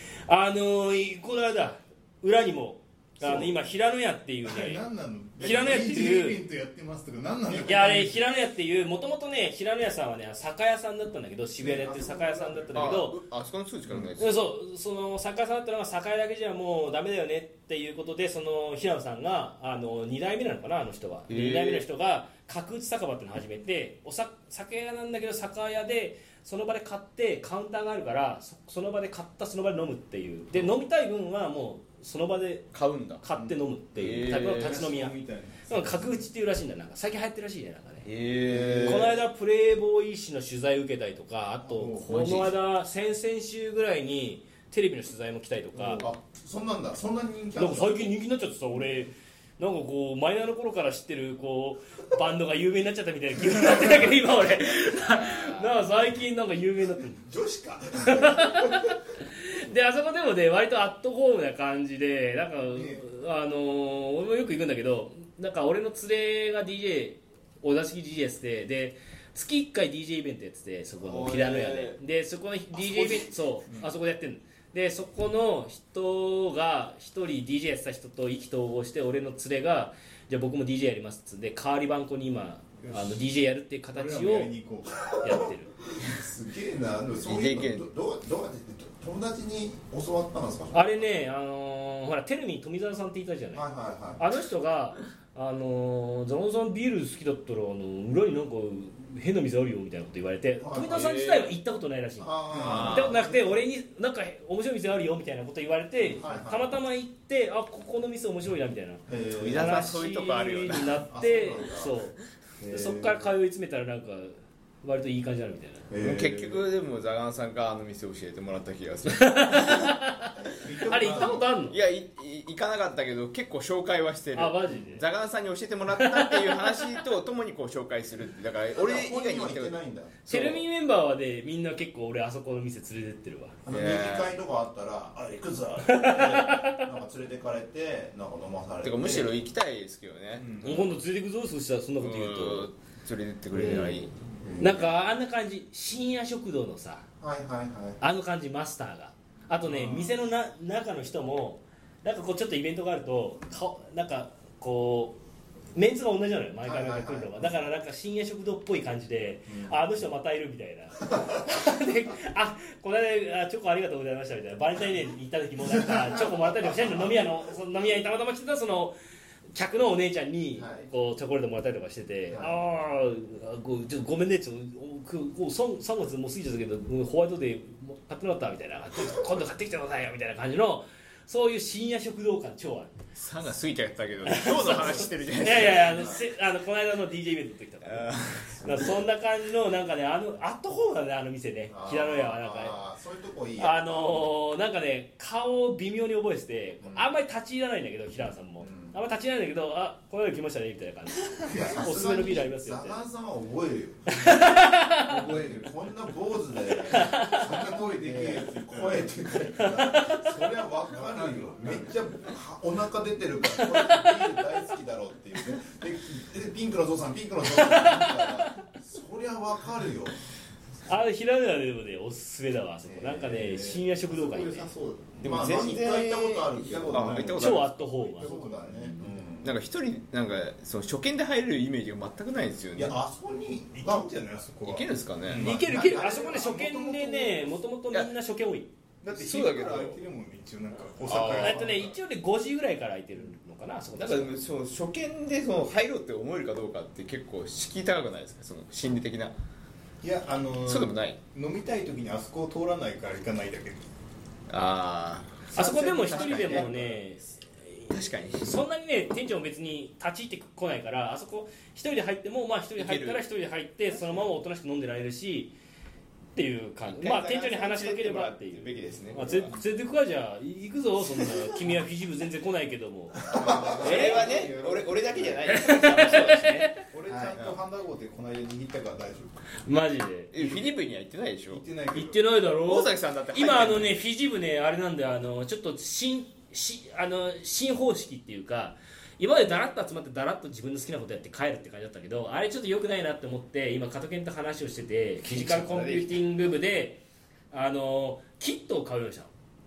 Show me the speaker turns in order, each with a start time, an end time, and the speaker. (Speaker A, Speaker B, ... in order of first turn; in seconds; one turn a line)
Speaker A: 0.2-4.8
Speaker B: 3.2-3.5
Speaker B: 4.4-8.2
Speaker A: 5.4-6.4
Speaker C: 5.4-5.9
Speaker A: 7.6-13.2
Speaker C: 11.6-12.8
Speaker D: 12.7-14.4
Speaker A: 14.2-38.1
Speaker D: 21.3-21.9
Speaker D: 32.7-33.4
Speaker D: 34.0-34.8
Speaker B: 34.6-36.2
Speaker D: 38.0-39.1
Speaker A: 38.8-46.0
Speaker B: 41.6-42.5
Speaker C: 45.8-48.1
Speaker A: 47.5-57.2
Speaker C: 57.2-58.7
Speaker A: 58.1-84.5
Speaker B: 62.7-63.0
Speaker D: 71.0-72.0
Speaker B: 73.2-73.9
Speaker B: 82.8-83.3
Speaker B: 83.9-85.4
Speaker A: 85.2-85.7
Speaker C: 86.0-91.1
Speaker D: 87.2-87.8
Speaker A: 90.7-93.7
Speaker C: 93.5-94.2
Speaker A: 94.2-112.2
Speaker C: 100.6-100.9
Speaker D: 100.9-101.5
Speaker C: 102.2-103.6
Speaker D: 102.6-103.2
Speaker C: 106.1-106.7
Speaker C: 109.1-109.9
Speaker D: 109.4-111.0
Speaker C: 111.1-112.0
Speaker C: 112.6-113.3
Speaker A: 112.7-115.9
Speaker C: 115.9-116.6
Speaker D: 116.0-119.9
Speaker A: 119.2-120.3
Speaker C: 120.4-121.5
Speaker A: 120.8-121.8
Speaker D: 121.1-129.8
Speaker A: 124.3-125.0
Speaker A: 126.0-126.6
Speaker C: 128.7-130.2
Speaker A: 130.2-133.6
Speaker D: 130.3-130.6
Speaker C: 133.7-139.3
Speaker D: 133.7-134.3
Speaker A: 135.9-136.8
Speaker D: 138.8-140.6
Speaker B: 140.4-140.9
Speaker A: 140.6-142.7
Speaker D: 142.0-144.1
Speaker C: 143.6-144.9
Speaker A: 144.6-147.1
Speaker C: 147.2-148.0
Speaker A: 148.0-155.2
Speaker B: 149.7-150.1
Speaker A: 155.7-169.0
Speaker C: 156.6-157.5
Speaker C: 159.5-159.8
Speaker C: 166.7-167.0
Speaker A: 169.5-182.9
Speaker C: 170.5-170.9
Speaker C: 172.3-172.6
Speaker D: 183.2-186.0
Speaker A: 184.2-192.8
Speaker C: 184.7-185.1
Speaker C: 185.7-186.2
Speaker D: 187.8-188.8
Speaker C: 191.7-194.3
Speaker A: 193.6-203.0
Speaker C: 196.8-197.1
Speaker C: 198.6-198.9
Speaker C: 201.5-204.2
Speaker A: 204.1-205.2
Speaker B: 204.2-205.8
Speaker C: 205.2-220.2
Speaker B: 206.7-209.6
Speaker A: 206.9-207.5
Speaker A: 209.7-210.2
Speaker B: 210.9-212.0
Speaker A: 213.6-214.3
Speaker A: 217.5-218.2
Speaker A: 220.9-224.7
Speaker C: 222.9-223.8
Speaker B: 223.5-224.9
Speaker C: 225.2-229.5
Speaker D: 225.2-227.8
Speaker A: 227.4-228.3
Speaker B: 228.1-229.1
Speaker D: 229.4-233.0
Speaker C: 232.8-234.1
Speaker B: 233.7-237.6
Speaker D: 234.7-235.5
Speaker A: 235.4-238.7
Speaker C: 235.5-236.2
Speaker B: 239.0-241.9
Speaker D: 239.1-240.0
Speaker D: 241.0-241.8
Speaker A: 241.3-244.4
Speaker D: 243.9-249.4
Speaker B: 250.0-253.8
Speaker D: 250.6-251.2
Speaker D: 254.5-255.4
Speaker C: 255.5-257.0
Speaker A: 255.5-265.5
Speaker D: 257.9-258.6
Speaker D: 262.8-263.2
Speaker A: 266.4-273.2
Speaker D: 266.9-269.6
Speaker C: 273.3-274.5
Speaker B: 273.3-275.5
Speaker D: 273.8-276.7
Speaker A: 273.8-274.3
Speaker A: 275.5-276.8
Speaker B: 276.9-279.3
Speaker C: 277.1-277.6
Speaker A: 279.6-280.3
Speaker D: 280.3-281.6
Speaker B: 280.4-280.7
Speaker B: 281.5-282.2
Speaker A: 281.9-299.3
Speaker D: 282.5-284.0
Speaker D: 295.2-296.2